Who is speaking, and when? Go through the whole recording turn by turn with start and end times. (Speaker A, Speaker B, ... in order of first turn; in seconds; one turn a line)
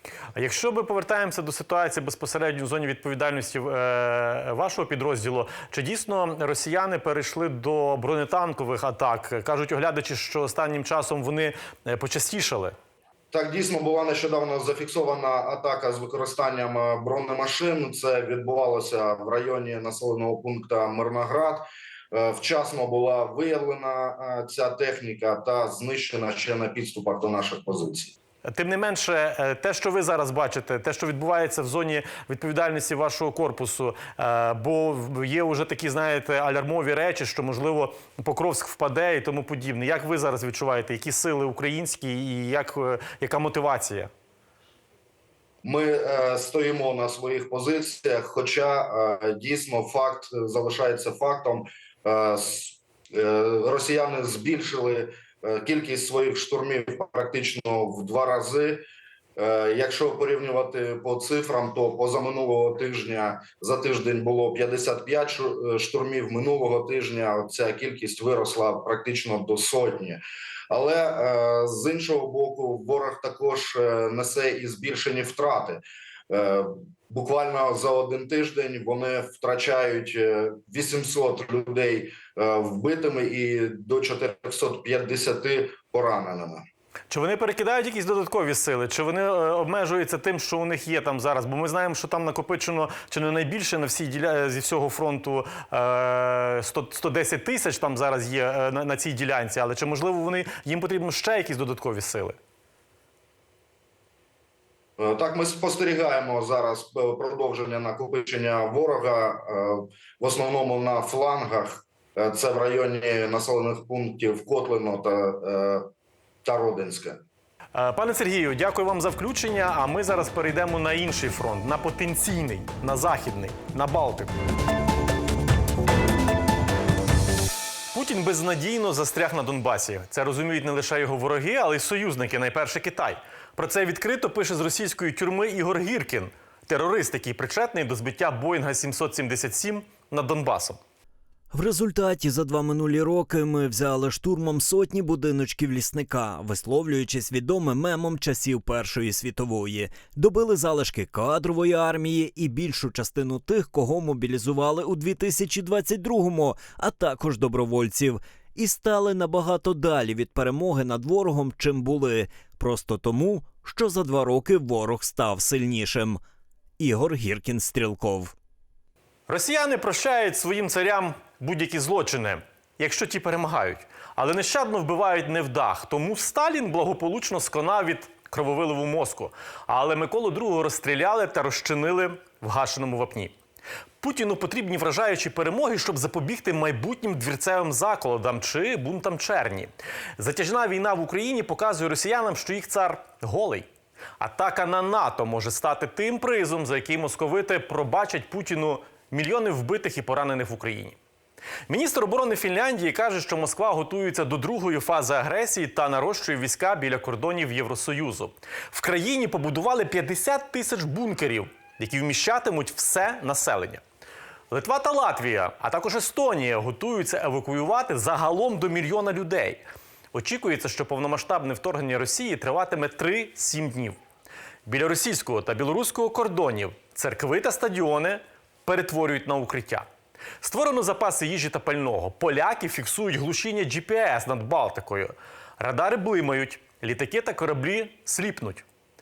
Speaker A: 0.3-12.7
Speaker B: 13.3-28.1
Speaker A: 28.4-44.1
Speaker B: 45.6-58.8
Speaker B: 59.4-86.7
Speaker A: 87.1-102.4
Speaker B: 105.0-115.9
Speaker B: 116.5-117.2
Speaker A: 117.7-124.3
Speaker A: 127.9-140.8
Speaker C: 141.5-166.2
Speaker C: 166.8-168.3
Speaker A: 169.3-183.3
Speaker A: 184.0-193.7
Speaker A: 194.2-201.0
Speaker A: 201.7-213.8
Speaker A: 214.5-224.0
Speaker A: 224.7-229.9
Speaker A: 230.4-238.7